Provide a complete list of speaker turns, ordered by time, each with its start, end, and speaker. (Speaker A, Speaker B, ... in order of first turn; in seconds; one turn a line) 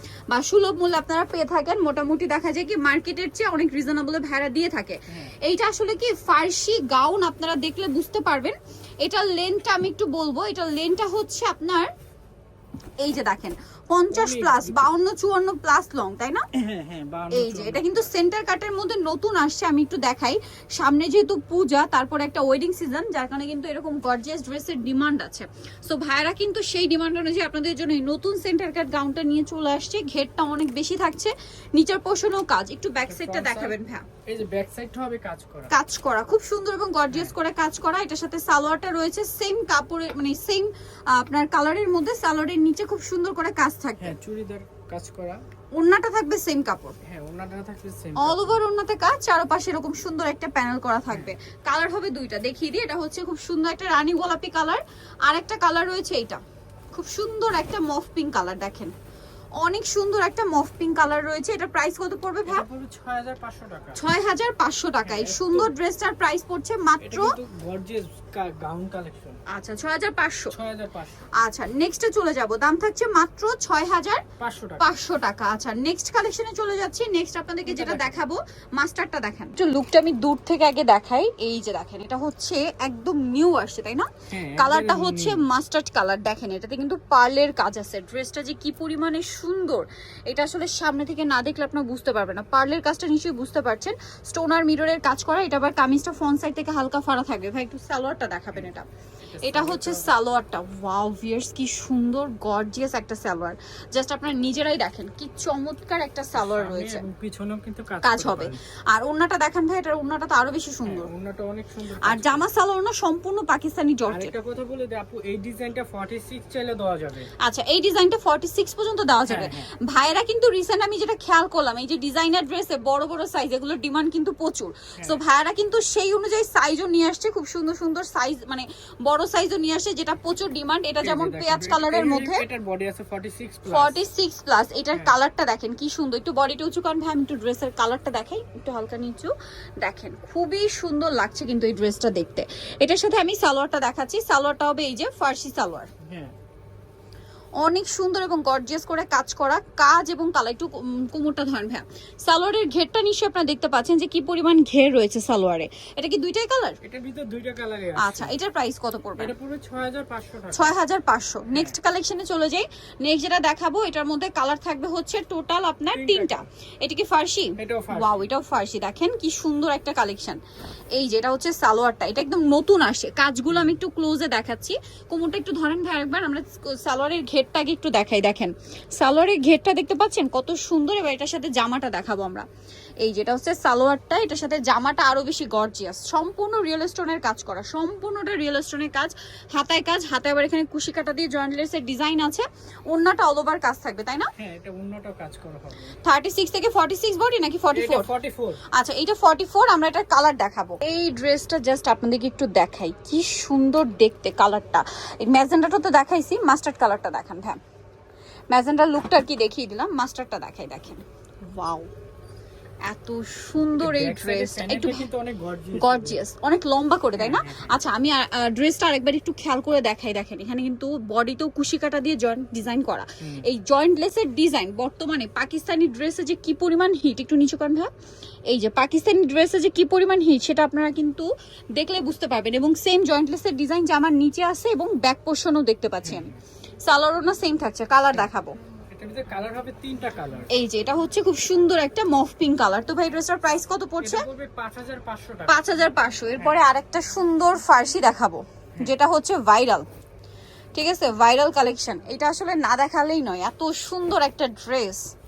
Speaker A: 0.3-11.9
Speaker B: 5.1-5.4
Speaker A: 13.0-16.4
Speaker B: 14.1-14.9
Speaker B: 16.5-18.1
Speaker A: 17.3-34.0
Speaker B: 33.0-35.8
Speaker A: 35.7-44.1
Speaker B: 44.0-45.4
Speaker A: 45.7-47.0
Speaker B: 47.0-48.6
Speaker A: 48.1-56.4
Speaker B: 51.1-51.4
Speaker A: 56.9-58.9
Speaker A: 59.6-62.6
Speaker B: 62.5-64.0
Speaker A: 64.0-67.3
Speaker B: 65.0-65.7
Speaker B: 67.0-69.4
Speaker A: 69.5-70.5
Speaker B: 70.5-71.3
Speaker A: 71.3-74.2
Speaker B: 74.4-74.9
Speaker A: 74.8-98.9
Speaker B: 77.7-78.2
Speaker B: 84.3-85.4
Speaker B: 99.3-100.1
Speaker A: 99.4-107.0
Speaker B: 106.3-108.6
Speaker A: 108.0-111.1
Speaker B: 110.8-112.5
Speaker A: 112.0-114.3
Speaker B: 114.1-117.3
Speaker A: 117.4-132.4
Speaker B: 119.3-119.7
Speaker B: 125.0-125.2
Speaker B: 131.0-134.0
Speaker A: 133.7-145.9
Speaker B: 146.0-146.3
Speaker A: 147.6-156.8
Speaker B: 156.8-158.4
Speaker A: 158.0-159.3
Speaker B: 159.2-160.7
Speaker A: 160.5-170.4
Speaker B: 161.5-161.8
Speaker B: 165.9-166.4
Speaker B: 167.6-168.3
Speaker A: 170.9-182.4
Speaker B: 173.5-173.8
Speaker A: 183.0-194.3
Speaker B: 194.3-196.0
Speaker A: 196.0-198.1
Speaker B: 197.7-198.6
Speaker A: 198.7-207.6
Speaker A: 208.5-211.9
Speaker A: 212.8-215.1
Speaker B: 213.8-216.2
Speaker A: 215.8-227.9
Speaker B: 217.2-217.8
Speaker B: 223.2-223.5
Speaker A: 228.5-236.3
Speaker B: 236.0-236.4
Speaker A: 236.8-238.6
Speaker B: 238.9-240.6
Speaker A: 240.5-244.2
Speaker B: 244.0-245.7
Speaker A: 245.5-249.8
Speaker A: 250.7-255.1